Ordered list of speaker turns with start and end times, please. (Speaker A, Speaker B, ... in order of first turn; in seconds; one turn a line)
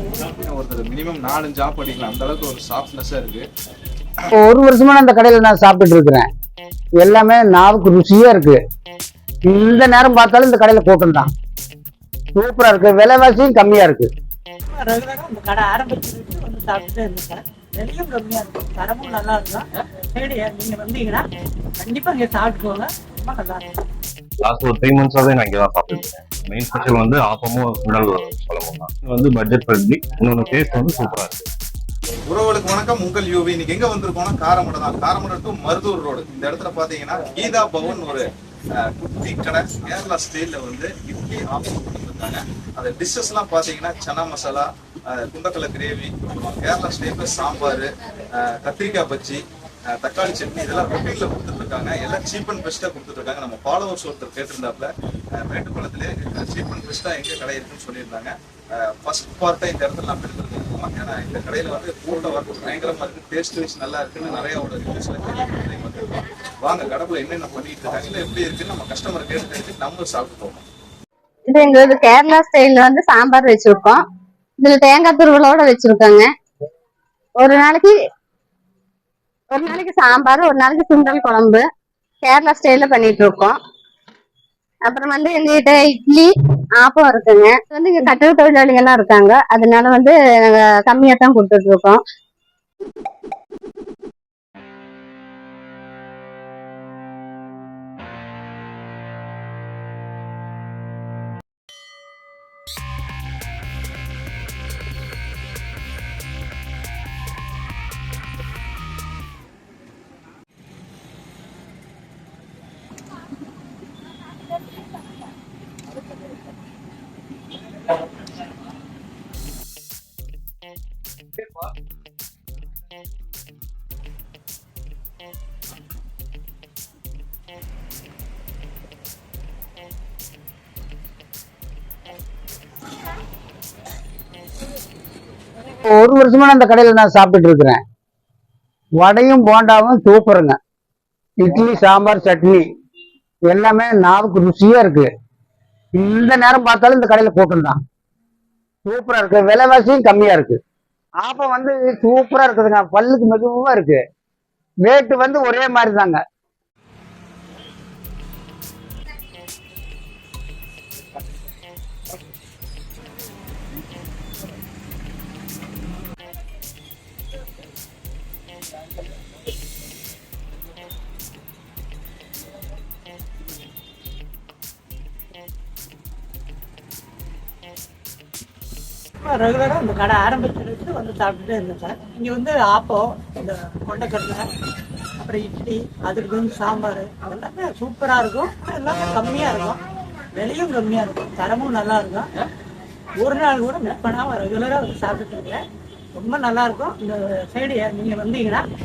Speaker A: 0.3-3.5
Speaker B: 4.3-6.3
Speaker B: 7.0-8.6
Speaker B: 9.5-11.3
Speaker B: 12.3-14.1
Speaker C: 14.7-21.2
Speaker C: 21.8-23.6
Speaker D: 24.4-31.4
Speaker A: 32.3-70.6
Speaker E: 71.5-74.0
Speaker E: 74.6-76.3
Speaker E: 77.4-77.9
Speaker E: 79.5-81.6
Speaker E: 82.2-83.6
Speaker E: 84.8-92.0
Speaker B: 135.8-137.8
Speaker B: 139.0-140.6
Speaker B: 141.4-142.7
Speaker B: 143.5-145.1
Speaker B: 145.9-147.8
Speaker B: 148.8-150.6
Speaker B: 151.2-154.0
Speaker B: 154.8-156.2
Speaker C: 179.2-184.4
Speaker C: 185.2-192.3
Speaker C: 193.2-195.6
Speaker C: 196.2-198.7